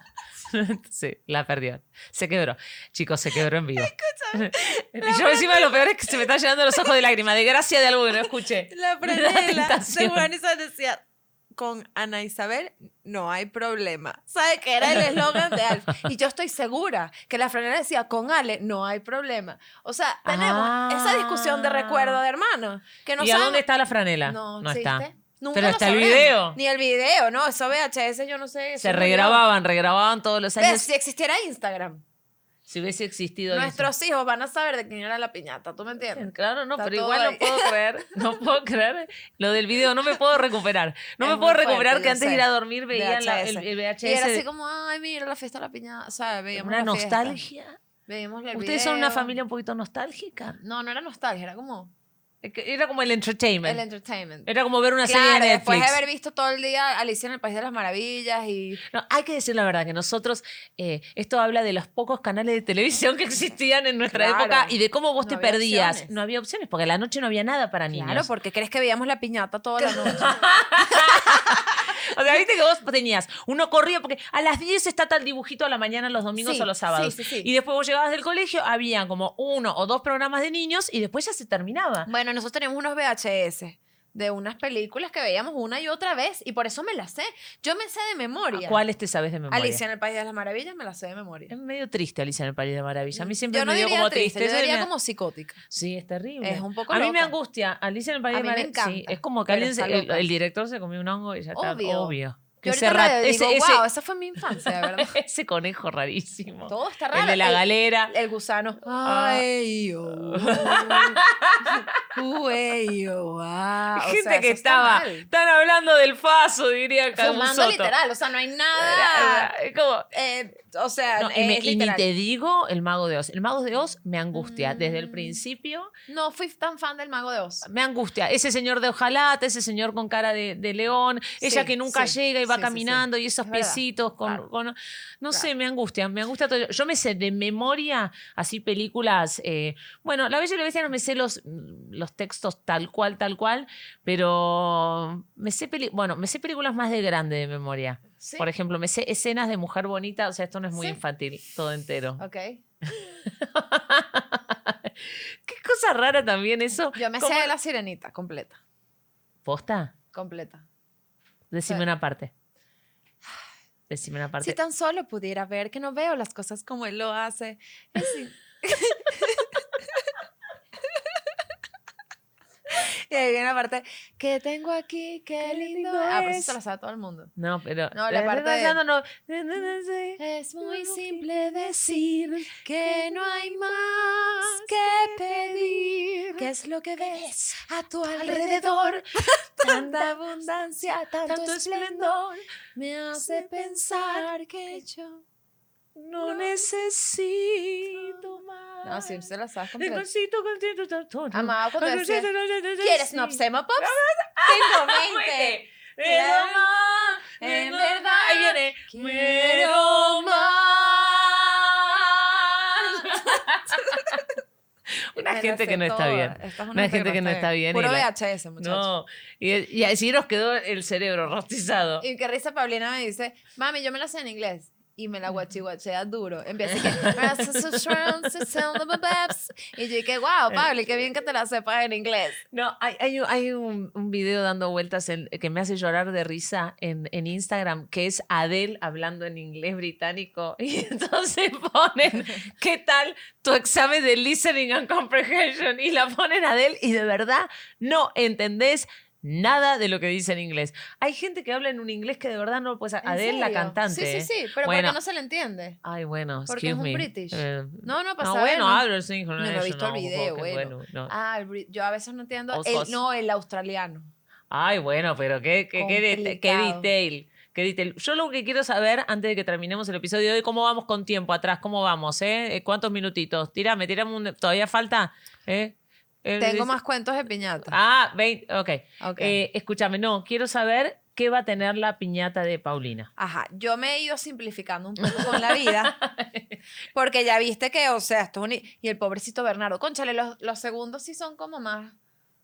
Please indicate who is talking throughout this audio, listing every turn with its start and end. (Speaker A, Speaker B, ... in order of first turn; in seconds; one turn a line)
Speaker A: 0.5-10.3
Speaker B: 3.8-6.3
Speaker B: 8.2-23.6
Speaker A: 14.9-16.1
Speaker A: 20.2-22.2
Speaker A: 23.2-26.6
Speaker B: 24.2-29.4
Speaker A: 28.8-30.9
Speaker B: 30.6-32.0
Speaker A: 32.7-33.9
Speaker B: 33.5-37.8
Speaker A: 36.1-44.4
Speaker B: 41.2-47.4
Speaker A: 46.5-47.8
Speaker B: 48.1-49.4
Speaker A: 48.5-50.6
Speaker B: 50.6-51.9
Speaker A: 52.4-53.8
Speaker B: 53.6-54.5
Speaker A: 54.5-56.0
Speaker B: 55.0-58.8
Speaker A: 58.9-68.3
Speaker B: 64.1-66.1
Speaker B: 67.9-71.8
Speaker A: 69.8-82.1
Speaker B: 76.4-77.5
Speaker B: 82.1-88.8
Speaker A: 88.5-89.8
Speaker B: 89.5-91.5
Speaker A: 91.5-94.9
Speaker B: 93.1-95.6
Speaker A: 95.7-103.9
Speaker B: 96.4-97.3
Speaker B: 98.3-100.3
Speaker B: 101.5-105.2
Speaker A: 104.5-108.1
Speaker B: 106.7-115.3
Speaker A: 108.8-109.5
Speaker A: 110.1-112.1
Speaker A: 113.9-117.9
Speaker B: 117.2-119.5
Speaker A: 118.8-120.1
Speaker B: 120.1-122.0
Speaker A: 121.2-125.9
Speaker B: 124.3-125.4
Speaker B: 126.1-127.7
Speaker A: 127.6-152.2
Speaker B: 131.4-134.4
Speaker B: 148.2-148.5
Speaker B: 150.7-151.0
Speaker B: 152.2-152.6
Speaker A: 152.9-157.5
Speaker B: 156.9-158.6
Speaker A: 159.4-159.9
Speaker B: 160.1-160.7
Speaker A: 161.5-162.3
Speaker A: 163.9-164.6
Speaker B: 164.4-170.0
Speaker B: 170.8-171.2
Speaker B: 172.7-177.3
Speaker A: 175.4-176.6
Speaker A: 177.4-182.9
Speaker B: 177.9-178.8
Speaker B: 180.2-195.2
Speaker A: 184.4-185.7
Speaker A: 186.4-187.6
Speaker A: 188.1-189.1
Speaker A: 189.6-190.2
Speaker A: 191.3-192.2
Speaker A: 193.1-194.3
Speaker A: 195.9-214.3
Speaker B: 196.2-196.7
Speaker B: 198.8-200.1
Speaker B: 201.3-206.7
Speaker B: 207.4-210.7
Speaker A: 215.1-218.1
Speaker B: 215.2-218.9
Speaker A: 218.6-222.1
Speaker B: 222.0-232.4
Speaker A: 226.7-228.5
Speaker A: 232.5-255.0
Speaker B: 253.0-255.8
Speaker A: 255.8-261.1
Speaker B: 256.5-258.9
Speaker B: 259.4-264.1
Speaker A: 262.5-263.0
Speaker A: 264.5-276.7
Speaker B: 265.8-266.9
Speaker B: 276.4-277.8
Speaker A: 277.6-283.1
Speaker B: 279.0-279.4
Speaker B: 283.2-286.0
Speaker A: 285.0-286.6
Speaker B: 286.9-292.0